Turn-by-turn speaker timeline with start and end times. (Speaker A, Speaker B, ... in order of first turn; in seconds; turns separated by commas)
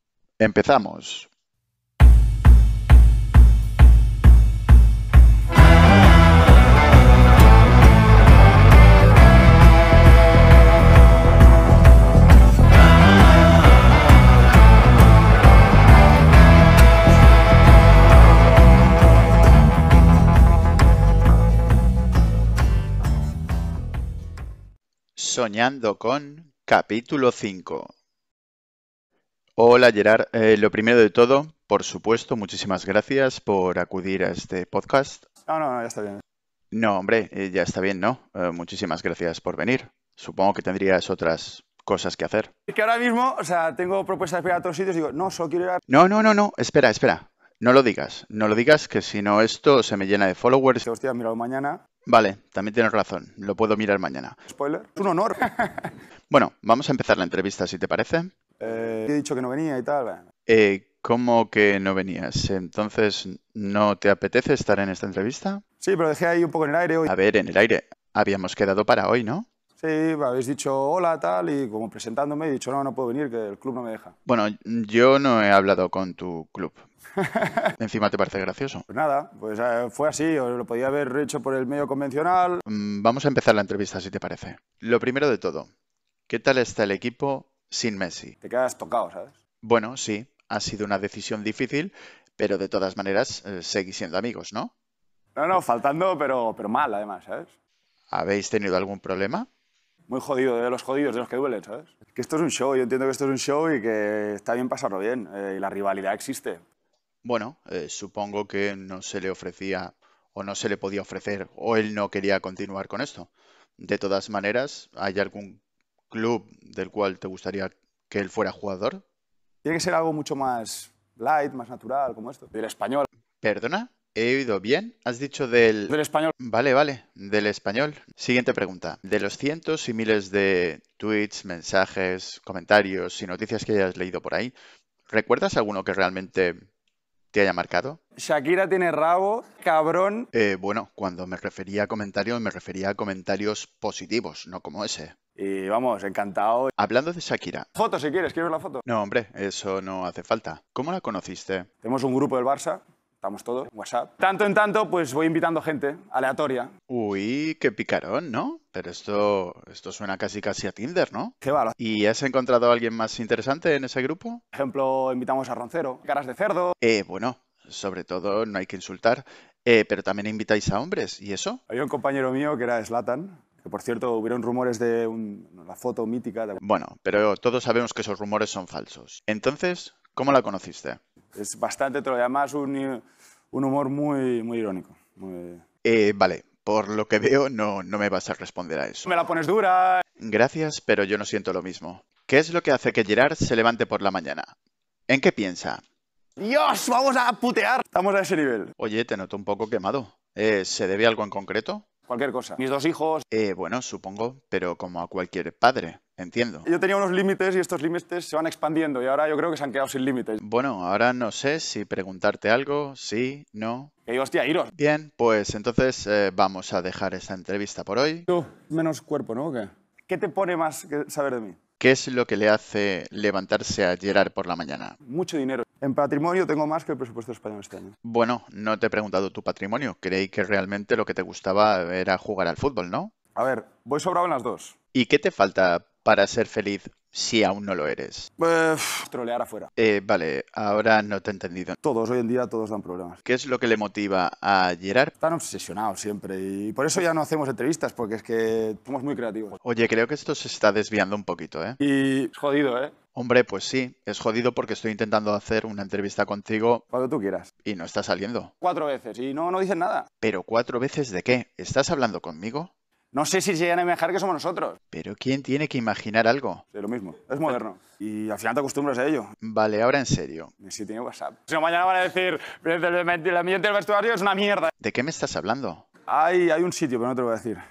Speaker A: 0.4-1.3, Speaker A: 25.2-27.9, Speaker A: 29.6-35.2, Speaker B: 35.5-36.2, Speaker A: 36.7-42.5, Speaker B: 42.7-45.8, Speaker A: 45.9-50.9, Speaker B: 50.8-51.8, Speaker A: 52.0-54.4, Speaker B: 54.5-56.0, Speaker A: 56.3-58.3, Speaker B: 58.6-60.2, Speaker A: 60.5-65.6, Speaker B: 65.8-67.1, Speaker A: 67.1-69.5, Speaker B: 69.8-74.1, Speaker A: 74.2-76.9, Speaker B: 77.2-77.7, Speaker A: 77.8-78.8, Speaker B: 78.9-82.6, Speaker A: 82.7-85.7, Speaker A: 86.3-88.3, Speaker B: 88.4-89.3, Speaker A: 89.6-94.7, Speaker B: 95.3-97.5, Speaker A: 98.1-99.5, Speaker B: 100.1-106.6, Speaker A: 107.2-119.0, Speaker B: 119.6-123.1, Speaker A: 123.4-134.5, Speaker B: 125.9-126.3, Speaker A: 135.1-136.7, Speaker A: 137.3-138.0, Speaker B: 138.2-140.3, Speaker A: 140.3-145.1, Speaker B: 145.4-146.7, Speaker A: 146.8-147.7, Speaker B: 147.8-148.8, Speaker A: 148.8-151.7, Speaker B: 151.8-156.7, Speaker A: 156.9-164.4, Speaker B: 161.4-161.8, Speaker B: 164.5-166.8, Speaker A: 166.8-171.6, Speaker B: 171.7-176.6, Speaker A: 176.6-181.0, Speaker B: 181.3-185.6, Speaker A: 185.8-189.1, Speaker B: 189.0-190.0, Speaker A: 190.2-194.5, Speaker A: 195.1-195.8, Speaker B: 196.4-198.8, Speaker A: 198.8-201.8, Speaker B: 202.1-203.2, Speaker A: 203.3-206.7, Speaker B: 206.6-210.4, Speaker A: 210.4-213.9, Speaker B: 214.1-214.7, Speaker A: 214.8-218.3, Speaker B: 218.3-221.6, Speaker A: 221.8-225.0, Speaker B: 225.1-228.0, Speaker A: 228.0-233.1, Speaker B: 233.3-234.8, Speaker A: 234.9-238.3, Speaker B: 238.4-239.7, Speaker A: 239.8-241.8, Speaker B: 241.8-243.2, Speaker A: 243.2-245.1, Speaker B: 245.2-249.6, Speaker A: 249.6-251.8, Speaker B: 251.8-252.9, Speaker A: 253.1-256.8, Speaker B: 256.9-257.5, Speaker A: 257.6-258.5, Speaker B: 258.6-260.1, Speaker A: 260.2-262.7, Speaker B: 263.1-264.8, Speaker A: 264.9-266.6, Speaker B: 266.7-269.3, Speaker A: 269.4-270.5, Speaker B: 270.6-274.7, Speaker A: 274.8-275.8, Speaker B: 276.1-277.6